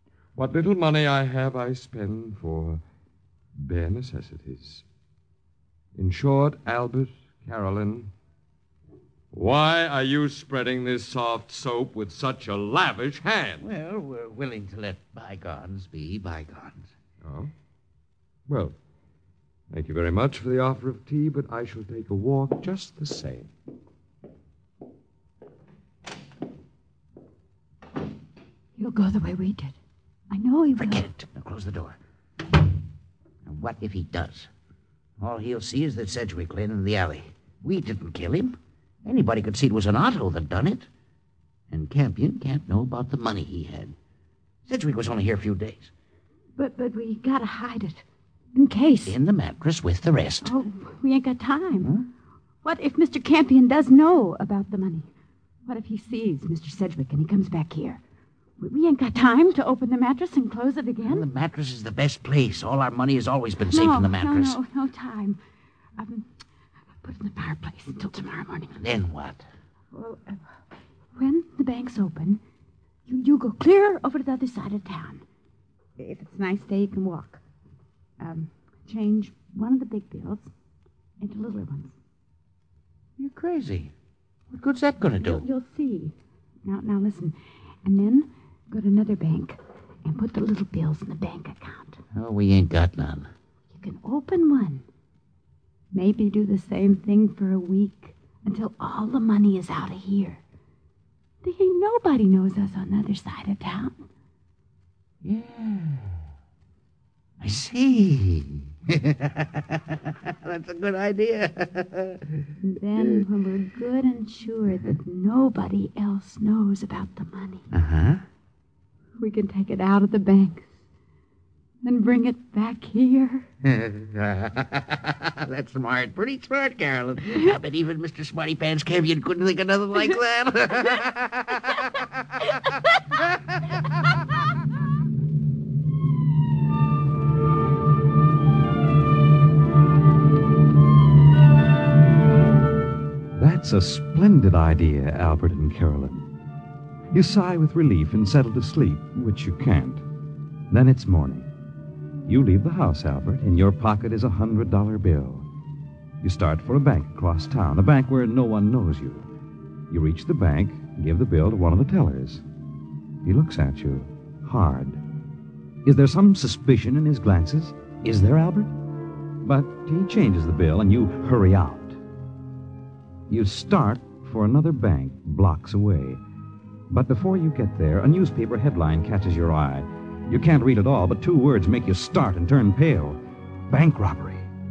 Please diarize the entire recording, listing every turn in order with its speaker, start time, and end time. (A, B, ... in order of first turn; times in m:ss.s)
0:00.4-0:02.8 A
0:03.6-0:04.8 A
0:06.0-0:08.1 A
0:09.3-0:13.6 A
0:13.6-0:16.9 B
0:17.2-0:17.5 A
0:18.5-0:18.8 A
0:19.7-0:23.5 A
0:28.8-0:29.8 C
0:30.3-0:31.1 C
0:30.8-0:32.0 B
0:33.4-0:34.5 B
0:35.2-0:40.9 B
0:41.7-0:44.0 B
0:44.7-0:45.9 B
0:46.6-0:49.2 C
0:49.0-0:50.5 B
0:50.4-0:51.9 C
0:52.6-0:55.1 C
0:55.7-0:58.0 C
0:58.6-1:01.3 C
1:01.0-1:04.6 B
1:03.6-1:05.4 C
1:06.0-1:06.3 C
1:07.0-1:08.8 C
1:08.8-1:09.5 B
1:09.9-1:10.4 C
1:11.2-1:12.4 C
1:13.1-1:15.2 C
1:16.0-1:17.4 C
1:18.2-1:20.5 C
1:21.2-1:22.0 C
1:23.2-1:23.9 B
1:24.5-1:25.4 B
1:25.2-1:32.0 C
1:32.1-1:33.3 B
1:33.7-1:34.8 C
1:35.9-1:40.4 C
1:41.4-1:44.1 C
1:45.2-1:46.2 B
1:47.4-1:52.4 B
1:52.6-1:57.7 C
1:57.7-1:58.2 B
1:59.2-2:00.8 C
2:01.8-2:03.5 C
2:03.6-2:12.4 B
2:11.5-2:11.9 C
2:12.5-2:13.2 C
2:23.4-2:26.3 D
2:27.1-2:30.0 D
2:30.7-2:31.5 D
2:32.3-2:35.5 D
2:36.2-2:39.3 D
2:39.9-2:42.4 D
2:43.2-2:45.0 D
2:45.8-2:48.7 D
2:49.4-2:52.0 D
2:53.3-2:56.2 D
2:56.9-3:04.5 D